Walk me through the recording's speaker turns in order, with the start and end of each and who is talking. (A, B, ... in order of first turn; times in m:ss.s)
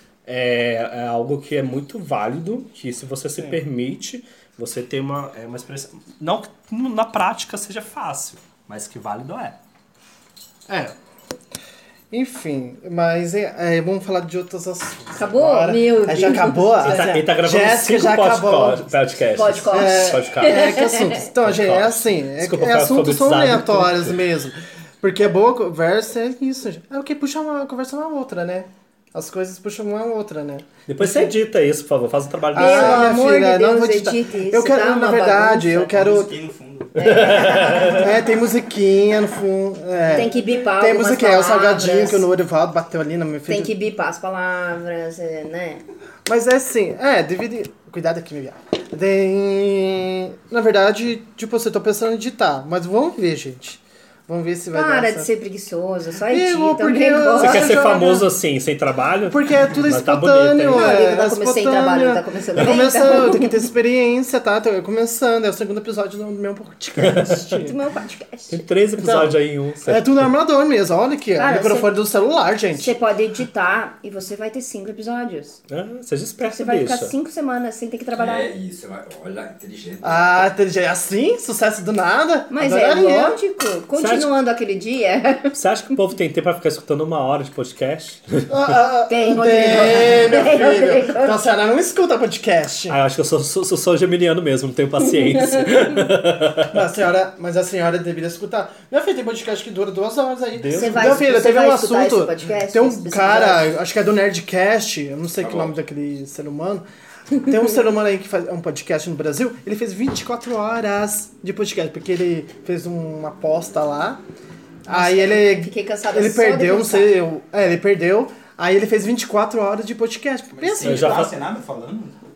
0:00.2-0:09.6 A
0:10.7-0:10.9 B
0:12.1-0:18.9 B
0:15.1-0:17.0 C
0:16.8-0:20.8 A
0:19.3-0:21.2 C
0:19.7-0:31.3 B
0:21.4-0:24.1 A
0:30.9-0:33.1 A
0:32.5-0:36.4 B
0:32.6-0:35.9 C
0:35.9-0:37.2 D
0:37.0-0:38.1 C
0:37.0-0:38.1 A
0:37.6-0:43.7 B
0:40.1-0:42.2 C
0:43.5-0:45.8 C
0:46.2-0:55.3 B
0:54.7-0:57.8 C
0:56.3-0:58.3 B
0:57.4-1:01.0 A
0:59.3-1:07.8 B
1:00.7-1:03.6 C
1:07.0-1:07.7 A
1:07.6-1:08.6 C
1:08.5-1:10.3 A
1:09.0-1:12.9 B
1:11.4-1:11.9 C
1:12.7-1:15.6 C
1:15.7-1:17.1 A
1:16.4-1:18.5 C
1:18.1-1:20.4 E
1:20.0-1:23.4 B
1:22.5-1:25.6 C
1:23.9-1:24.3 A
1:25.5-1:28.5 A
1:28.5-1:33.0 B
1:29.1-1:31.4 C
1:32.9-1:36.7 A
1:36.7-1:54.2 B
1:40.6-1:41.2 A
1:40.7-1:43.7 C
1:45.4-1:45.7 E
1:54.9-2:01.3 B
1:54.9-1:57.2 C
2:00.5-2:02.2 D
2:00.8-2:01.4 A